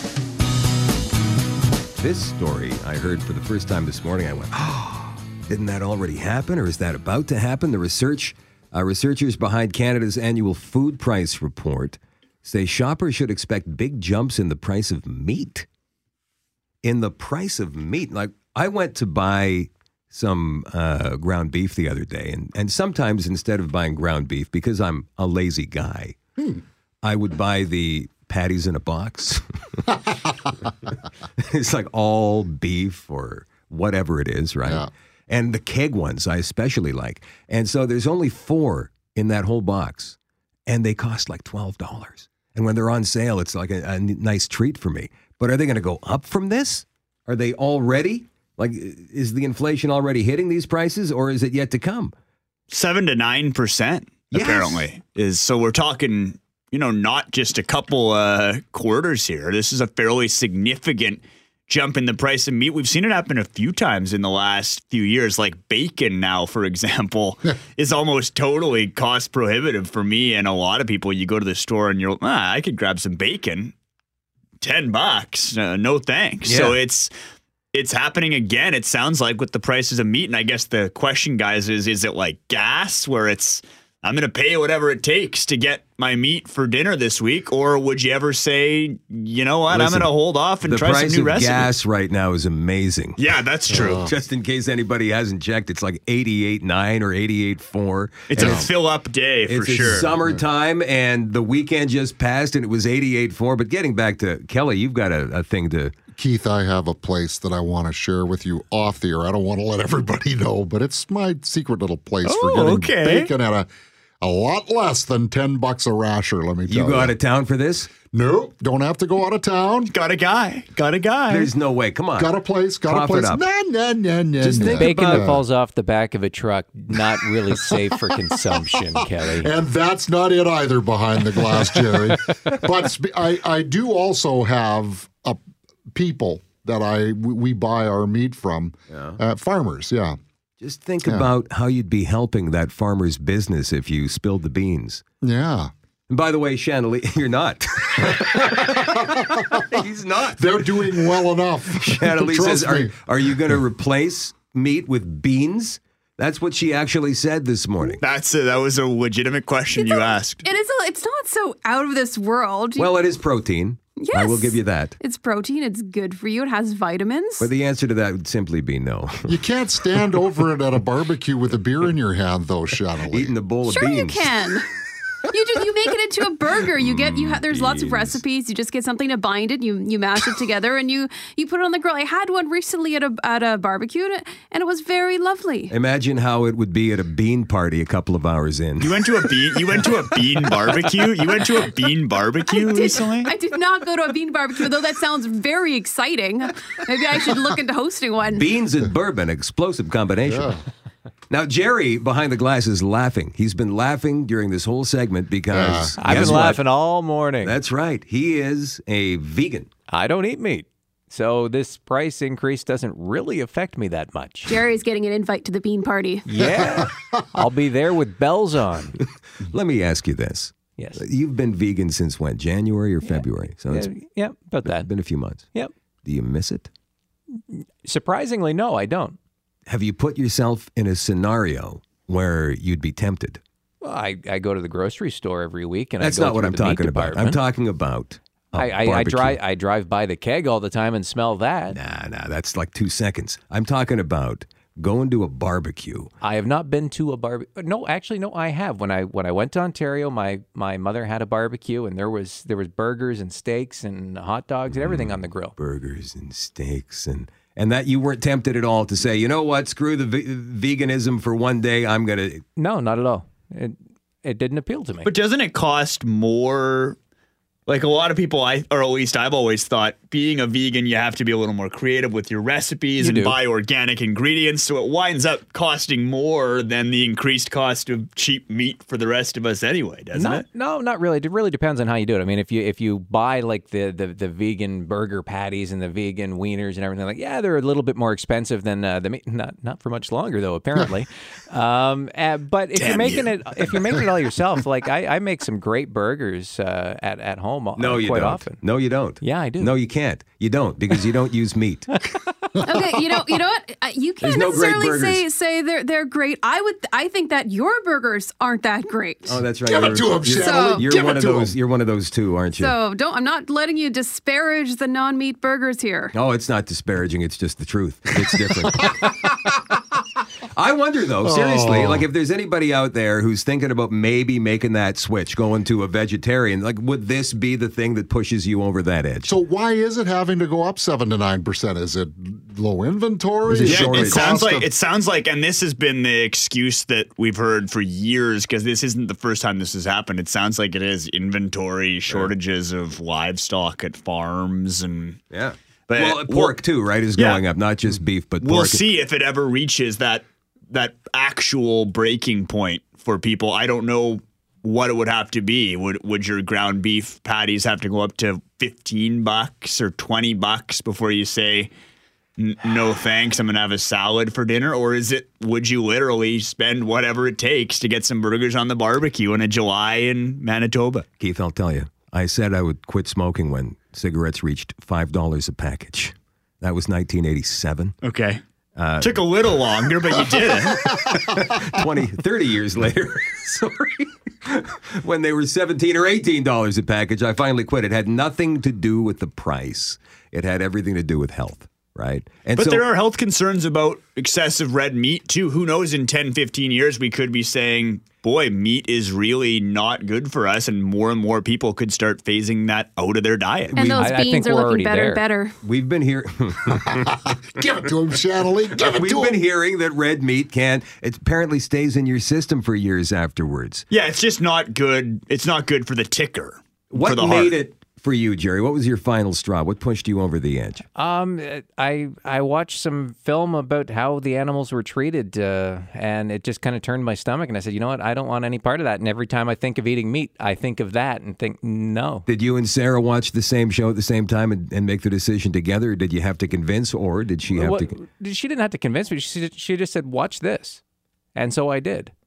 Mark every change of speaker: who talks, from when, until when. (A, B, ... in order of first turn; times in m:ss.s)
0:02.0-0:15.7 A
0:16.8-0:26.2 A
0:27.0-0:29.9 A
0:31.4-0:52.1 A
0:52.7-1:13.7 B
0:54.3-0:54.9 A
1:14.6-1:17.1 B
1:16.4-1:16.8 A
1:17.7-1:31.7 B
1:29.7-1:30.1 A
1:30.6-1:33.2 A
1:33.2-1:34.1 B
1:33.7-1:34.1 C
1:33.7-1:38.7 A
1:38.3-1:40.2 B
1:38.4-1:38.7 C
1:39.5-1:46.0 A
1:40.0-1:40.4 C
1:46.2-1:53.7 C
1:52.2-1:53.3 B
1:54.2-1:57.1 C
1:56.7-1:57.9 A
1:58.1-1:59.9 C
1:59.9-2:01.5 B
2:01.3-2:02.3 A
2:02.2-2:05.4 C
2:02.8-2:03.4 A
2:04.4-2:05.3 A
2:04.7-2:09.5 D
2:09.4-2:15.4 C
2:16.0-2:20.2 C
2:18.9-2:19.2 A
2:20.6-2:25.0 A
2:21.0-2:21.3 C
2:25.2-2:25.7 C
2:26.1-2:30.8 A
2:30.4-2:32.9 C
2:31.8-2:38.0 A
2:38.0-2:40.4 B
2:39.7-2:42.9 E
2:42.8-2:44.9 A
2:44.0-2:47.5 E
2:47.4-2:49.3 A
2:49.3-2:53.4 C
2:53.1-2:54.3 A
2:53.7-2:54.6 E
2:55.3-3:05.7 E
2:56.8-2:58.2 A
3:05.7-3:09.0 A
3:08.8-3:13.3 B
3:12.5-3:18.4 E
3:18.3-3:20.5 A
3:20.3-3:20.6 C
3:21.3-3:26.6 A
3:25.5-3:26.5 C
3:26.0-3:27.6 D
3:27.4-3:29.7 A
3:29.9-3:34.6 D
3:34.5-3:36.3 E
3:36.2-3:39.0 D
3:39.4-3:43.9 A
3:40.8-3:41.0 D
3:43.0-3:44.9 D
3:44.6-3:45.5 A
3:46.0-3:46.7 A
3:47.5-3:49.2 D
3:49.7-3:53.4 A
3:53.8-3:57.4 D
3:56.0-3:59.4 A
3:58.6-4:01.8 D
4:01.7-4:06.1 A
4:06.2-4:15.6 D
4:14.7-4:22.4 A
4:22.6-4:25.1 D
4:25.0-4:27.0 B
4:27.7-4:40.4 B
4:33.0-4:33.4 D
4:40.1-4:58.6 D
4:52.8-4:53.7 A
4:57.8-5:02.0 A
4:59.2-4:59.8 D
5:02.6-5:03.0 C
5:02.6-5:09.4 E
5:04.2-5:05.2 A
5:09.3-5:12.8 A
5:09.6-5:11.6 C
5:10.4-5:10.9 E
5:12.5-5:16.1 E
5:16.1-5:19.3 A
5:18.8-5:19.1 C
5:20.6-5:29.3 A
5:21.2-5:22.1 C
5:29.2-5:34.7 C
5:33.5-5:34.4 A
5:33.6-5:45.2 B
5:42.1-5:42.3 A
5:45.3-5:48.8 A
5:45.9-5:46.6 B
5:47.2-5:47.4 B
5:48.4-6:01.7 B
6:02.4-6:11.0 B
6:11.2-6:18.0 A
6:18.0-6:18.4 B
6:18.8-6:19.2 A
6:19.0-6:20.8 B
6:20.6-6:32.9 A
6:32.6-6:43.8 B
6:43.8-6:45.6 E
6:43.8-6:44.1 A
6:44.0-6:45.2 D
6:45.6-6:47.1 A
6:46.9-6:49.4 C
6:48.7-6:53.9 A
6:53.9-6:57.6 B
6:56.9-7:00.8 A
7:01.0-7:12.3 D
7:12.3-7:18.0 A
7:17.5-7:20.8 D
7:21.4-7:22.1 D